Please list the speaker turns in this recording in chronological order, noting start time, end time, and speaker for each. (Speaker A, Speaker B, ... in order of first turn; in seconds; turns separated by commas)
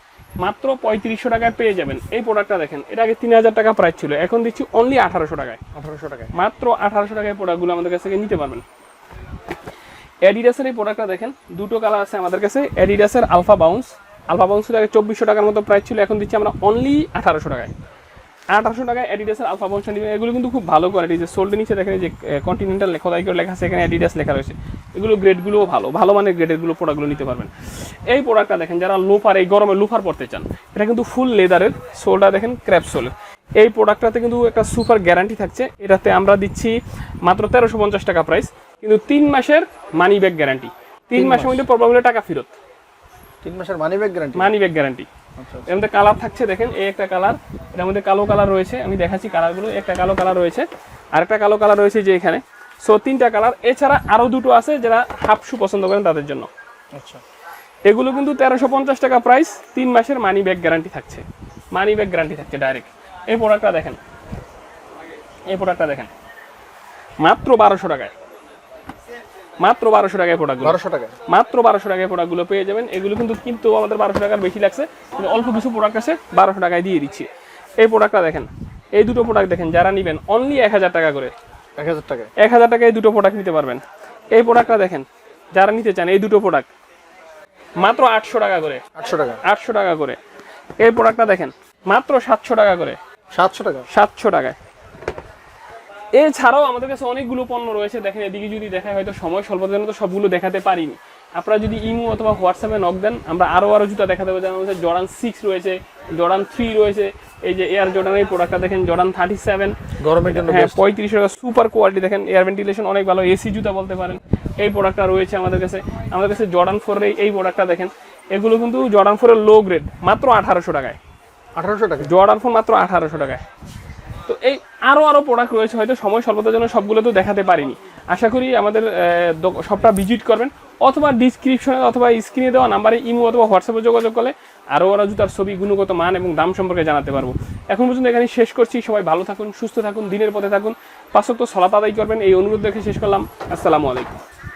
Speaker A: 0.4-5.6, Speaker B: 5.7-6.3, Speaker A: 6.3-8.6, Speaker A: 10.2-17.7, Speaker A: 18.5-42.5, Speaker B: 41.1-41.6, Speaker B: 43.4-44.5, Speaker A: 44.4-45.1, Speaker B: 45.4-45.7, Speaker A: 45.6-56.5, Speaker B: 57.0-57.2, Speaker A: 57.9-64.0, Speaker A: 65.5-66.1, Speaker A: 67.2-68.1, Speaker A: 69.6-77.3, Speaker B: 70.6-71.1, Speaker A: 77.8-81.3, Speaker B: 81.8-82.3, Speaker A: 82.4-86.7, Speaker A: 87.8-88.8, Speaker B: 88.9-89.4, Speaker A: 89.4-90.2, Speaker A: 90.8-93.0, Speaker B: 93.3-93.9, Speaker A: 93.9-94.6, Speaker A: 96.2-121.0, Speaker B: 110.0-110.9, Speaker B: 121.5-122.1, Speaker A: 122.0-123.4, Speaker A: 124.2-144.2